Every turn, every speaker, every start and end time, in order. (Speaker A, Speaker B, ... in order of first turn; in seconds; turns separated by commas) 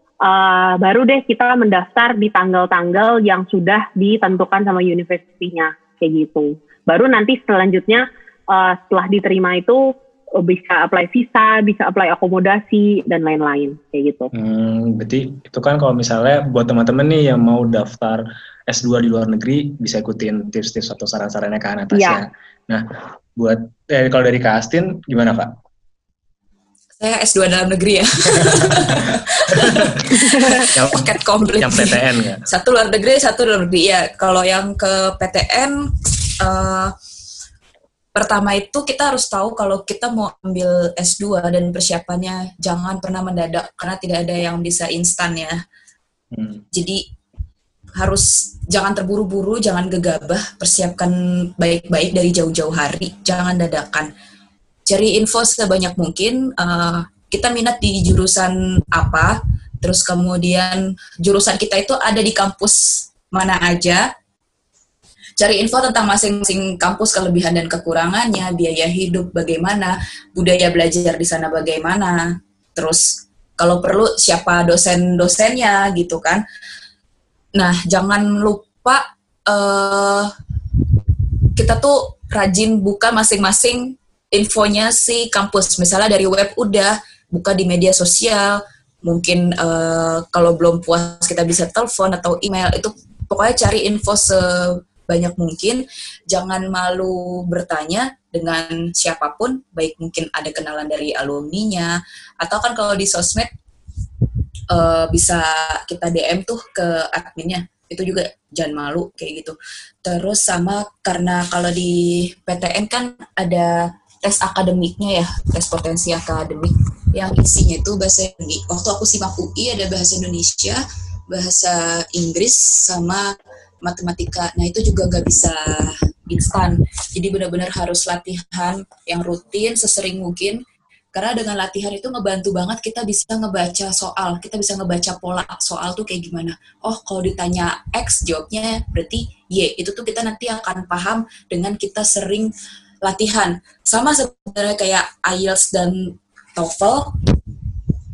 Speaker A: 0.2-9.8, Speaker A: 10.4-14.3, Speaker B: 14.3-22.8, Speaker A: 21.9-22.2, Speaker B: 23.4-25.5, Speaker C: 27.0-36.9, Speaker B: 29.6-32.4, Speaker A: 30.4-30.7, Speaker C: 38.1-45.6, Speaker B: 46.3-46.6, Speaker C: 46.7-47.0, Speaker C: 48.0-54.1, Speaker C: 54.9-64.0, Speaker C: 65.4-76.4, Speaker C: 77.5-80.3, Speaker C: 81.5-103.5, Speaker C: 104.7-123.3, Speaker C: 123.8-130.6, Speaker C: 131.1-147.1